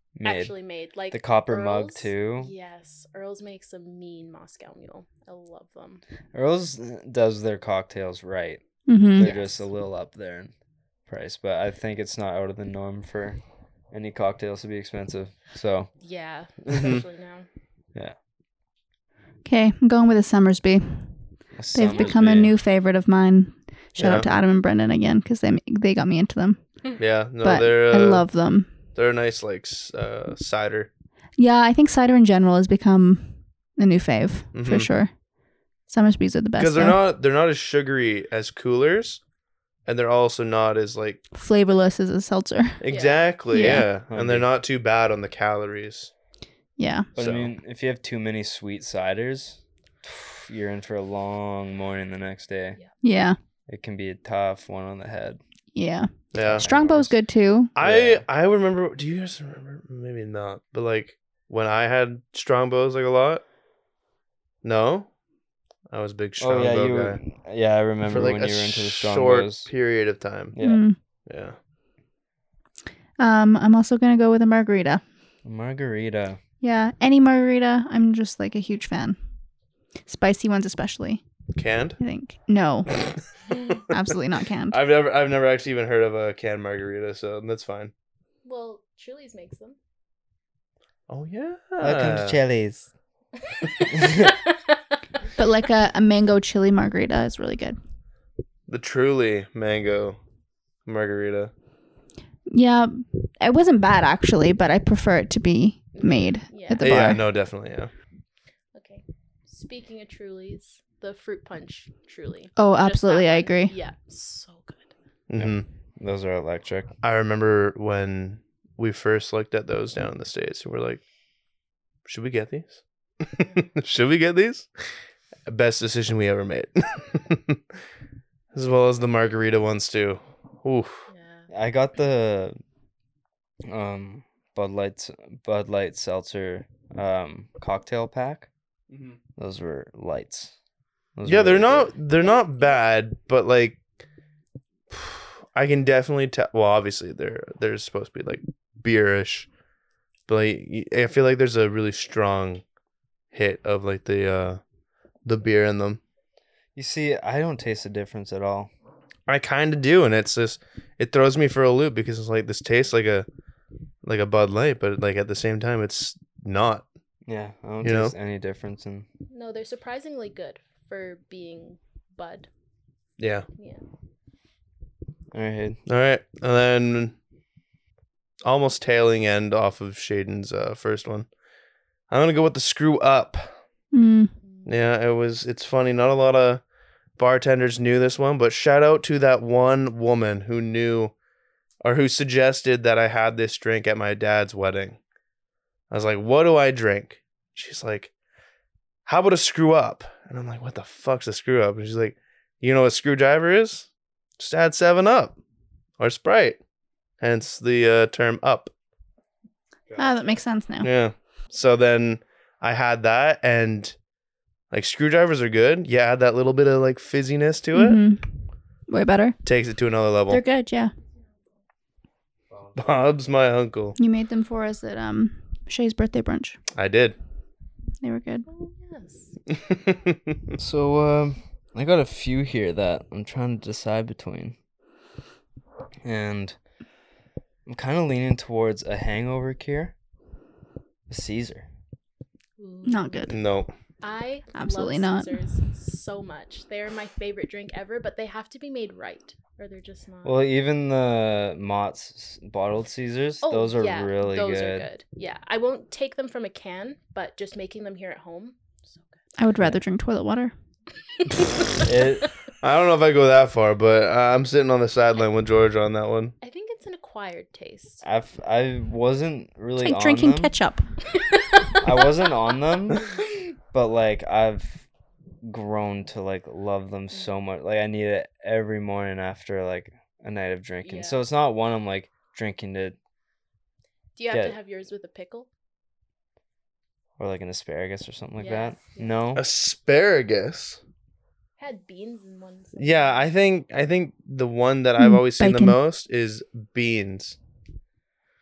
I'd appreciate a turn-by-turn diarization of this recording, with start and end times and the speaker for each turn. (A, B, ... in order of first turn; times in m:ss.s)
0:00.2-0:00.5 A
0:00.2-0:06.0 B
0:01.1-0:02.5 A
0:06.3-0:10.5 A
0:08.8-0:09.3 C
0:09.2-0:09.7 B
0:11.0-0:13.4 A
0:13.9-0:15.9 A
0:16.0-0:17.5 B
0:16.7-0:17.0 D
0:19.4-0:21.2 C
0:21.6-0:22.5 A
0:21.7-0:26.6 C
0:21.9-0:22.2 B
0:24.0-0:24.3 D
0:27.0-0:28.3 D
0:27.4-0:28.7 C
0:28.9-0:30.9 D
0:31.4-0:35.1 C
0:34.5-0:34.9 D
0:35.9-0:37.0 C
0:36.6-0:39.2 D
0:39.8-0:41.2 D
0:41.3-0:42.8 C
0:42.8-0:46.1 D
0:42.9-0:43.3 B
0:43.5-0:43.9 C
0:43.6-0:44.5 A
0:46.8-0:47.1 C
0:47.2-0:47.5 D
0:47.2-0:52.8 A
0:53.0-0:53.4 C
0:53.7-0:55.4 A
0:55.7-0:57.7 C
0:56.3-0:56.9 D
0:56.4-0:57.1 A
0:57.8-1:03.4 D
0:57.8-0:58.2 A
1:04.6-1:05.1 D
1:05.9-1:07.2 D
1:06.4-1:09.7 A
1:08.0-1:10.6 D
1:10.5-1:10.8 A
1:10.6-1:11.0 C
1:11.3-1:11.5 D
1:13.2-1:15.0 C
1:15.4-1:16.4 A
1:16.6-1:19.2 C
1:20.1-1:21.2 C
1:21.5-1:22.0 D
1:22.0-1:23.0 C
1:23.9-1:24.8 C
1:24.7-1:27.9 D
1:28.4-1:29.8 B
1:31.1-1:32.4 D
1:31.8-1:32.9 A
1:33.4-1:34.8 B
1:33.9-1:34.3 A
1:35.4-1:37.8 C
1:38.7-1:40.2 D
1:40.8-1:41.5 D
1:42.5-1:47.2 C
1:45.9-1:47.1 B
1:46.8-1:47.9 D
1:48.7-1:54.9 B
1:52.6-1:53.7 C
1:55.3-1:55.6 D
1:55.4-1:56.9 A
1:57.0-2:01.0 D
2:02.0-2:04.7 D
2:05.5-2:07.6 D
2:08.5-2:11.1 D
2:11.1-2:11.5 B
2:11.5-2:12.6 A
2:13.7-2:18.5 A
2:18.9-2:19.2 D
2:19.4-2:20.5 A
2:21.2-2:21.9 A
2:21.2-2:23.8 D
2:22.3-2:22.7 B
2:24.9-2:29.5 D
2:30.3-2:32.6 D
2:33.3-2:34.6 D
2:35.2-2:36.0 D
2:36.8-2:38.7 A
2:39.3-2:43.2 D
2:44.0-2:46.8 D
2:47.2-2:49.0 A
2:47.8-2:48.1 D
2:49.3-2:52.5 B
2:53.2-2:53.4 D
2:53.6-2:53.8 B
2:55.3-2:55.8 A
2:55.9-2:57.1 D
2:58.4-3:01.3 D
3:02.1-3:03.5 D
3:03.9-3:04.3 C
3:04.6-3:06.6 D
3:07.2-3:11.1 D
3:11.8-3:15.0 D
3:15.9-3:18.1 D
3:19.0-3:23.9 D
3:24.4-3:25.4 D
3:26.0-3:26.6 D
3:27.2-3:28.7 D
3:30.0-3:30.9 C
3:30.8-3:34.0 D
3:34.7-3:38.0 D
3:37.7-3:38.3 C
3:38.9-3:39.4 C
3:39.4-3:40.4 D
3:40.3-3:40.9 C
3:42.7-3:44.0 D
3:44.0-3:46.6 C
3:46.7-3:47.2 D
3:48.0-3:48.4 C
3:48.5-3:49.3 B
3:49.7-3:50.4 D
3:50.6-3:54.6 A
3:56.0-3:56.6 A
3:57.6-3:59.9 A
4:01.1-4:01.6 A
4:02.6-4:03.4 B
4:02.8-4:03.4 C
4:03.3-4:03.7 D
4:04.0-4:10.4 B
4:04.5-4:05.3 C
4:10.2-4:14.9 A
4:13.4-4:19.2 B
4:19.4-4:20.5 C
4:21.2-4:21.9 B
4:21.8-4:22.3 A
4:22.6-4:26.3 D
4:26.4-4:28.0 B
4:28.0-4:30.5 A
4:29.8-4:30.8 C
4:31.1-4:32.3 B
4:31.8-4:33.1 A
4:33.7-4:34.8 A
4:35.4-4:43.0 A
4:40.8-4:41.2 B
4:44.2-4:45.5 B
4:44.3-4:44.6 A
4:47.2-4:49.4 A
4:48.4-4:49.1 B
4:49.4-4:50.8 D
4:51.6-4:53.2 B
4:52.8-4:57.4 D
4:55.0-4:55.8 C